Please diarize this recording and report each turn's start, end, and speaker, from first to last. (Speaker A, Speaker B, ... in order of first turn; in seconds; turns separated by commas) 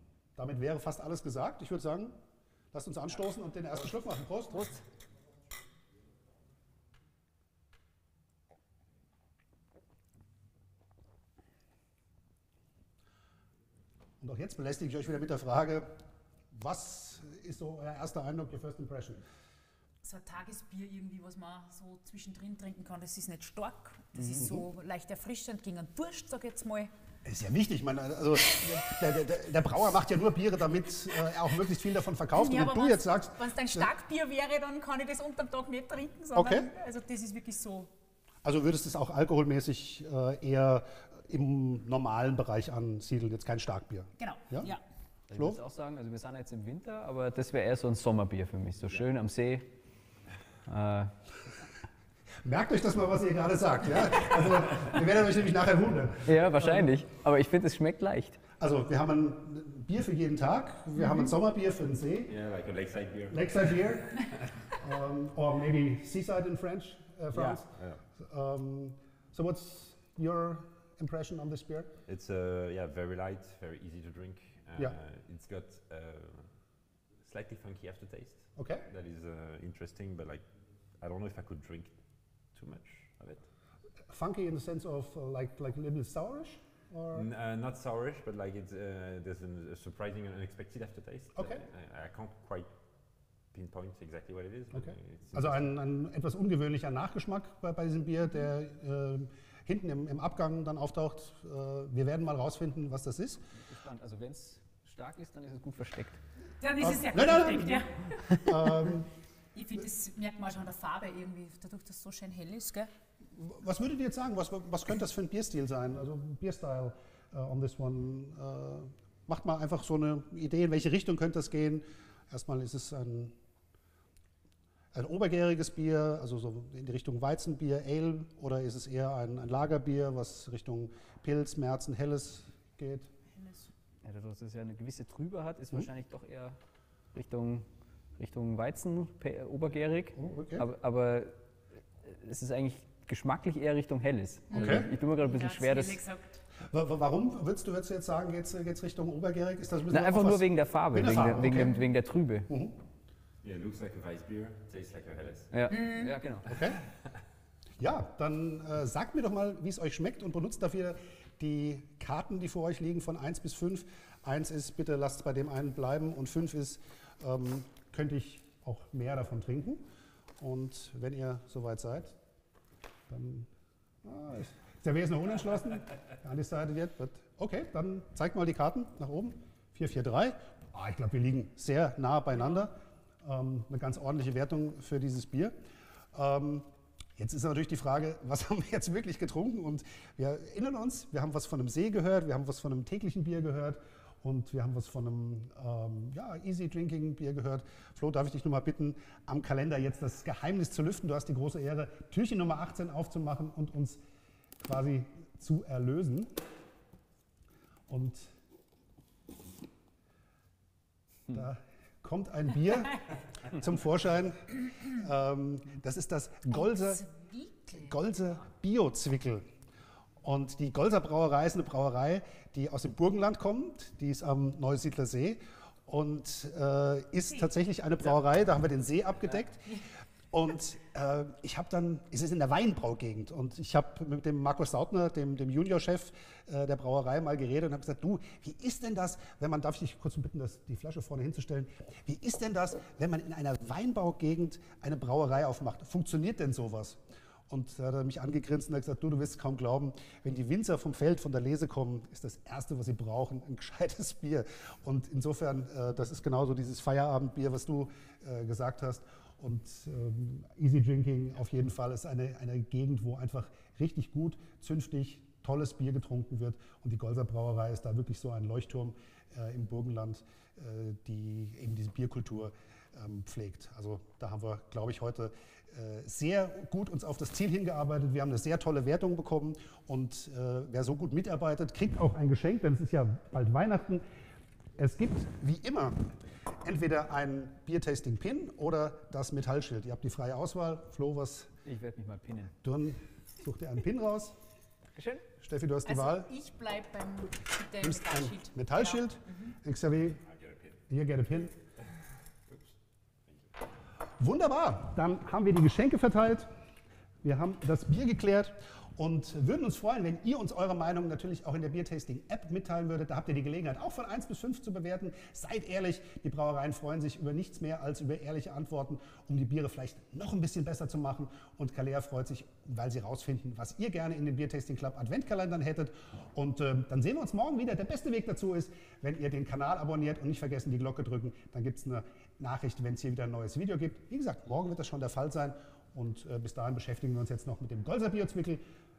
Speaker A: 0.4-2.2, Speaker A: 2.7-4.8, Speaker B: 4.5-4.8, Speaker A: 14.2-15.9, Speaker A: 16.5-19.2, Speaker C: 20.0-26.9, Speaker A: 24.2-24.7, Speaker A: 27.2-33.9, Speaker C: 32.3-37.9, Speaker A: 36.4-36.7, Speaker A: 38.4-44.7, Speaker C: 44.2-44.8, Speaker B: 45.3-49.7, Speaker A: 45.3-45.6, Speaker B: 50.7-51.1, Speaker A: 52.4-56.9, Speaker B: 56.2-58.4, Speaker A: 58.6-62.4, Speaker D: 62.3-63.9, Speaker A: 63.3-71.9, Speaker D: 67.4-68.0, Speaker D: 72.1-76.5, Speaker D: 77.2-80.5, Speaker A: 78.6-78.9, Speaker D: 81.0-82.0, Speaker D: 82.5-83.5, Speaker A: 84.1-87.3, Speaker D: 87.1-92.7, Speaker A: 91.4-91.6, Speaker D: 93.5-95.7, Speaker A: 94.7-103.4, Speaker B: 103.6-106.2, Speaker C: 106.6-108.5, Speaker A: 106.8-109.1, Speaker C: 109.5-112.9, Speaker A: 113.3-123.3, Speaker A: 124.9-133.1, Speaker C: 133.3-133.7, Speaker B: 134.0-136.6, Speaker B: 137.1-137.7, Speaker B: 138.2-141.3, Speaker A: 140.1-140.7, Speaker B: 142.0-146.0, Speaker C: 144.5-146.4, Speaker A: 144.5-144.9, Speaker A: 146.7-151.8, Speaker B: 149.9-152.5, Speaker A: 152.5-152.8, Speaker D: 153.4-155.5, Speaker B: 155.5-156.5, Speaker C: 155.7-156.1, Speaker A: 156.5-156.8, Speaker A: 157.8-169.8, Speaker A: 170.4-172.2, Speaker A: 173.1-173.5, Speaker A: 174.0-185.6, Speaker A: 186.1-204.0, Speaker A: 204.6-206.3, Speaker A: 207.9-208.3, Speaker A: 211.3-217.0, Speaker C: 216.5-218.0, Speaker A: 217.7-219.4, Speaker A: 220.2-284.0, Speaker A: 284.8-286.1, Speaker A: 286.6-291.5, Speaker B: 291.6-292.5, Speaker A: 292.6-294.4, Speaker B: 294.9-295.2, Speaker A: 295.4-296.3, Speaker C: 295.9-299.5, Speaker A: 297.8-300.2, Speaker D: 300.3-300.8, Speaker A: 300.9-301.5, Speaker D: 301.8-302.7, Speaker A: 304.2-306.5, Speaker A: 307.2-338.6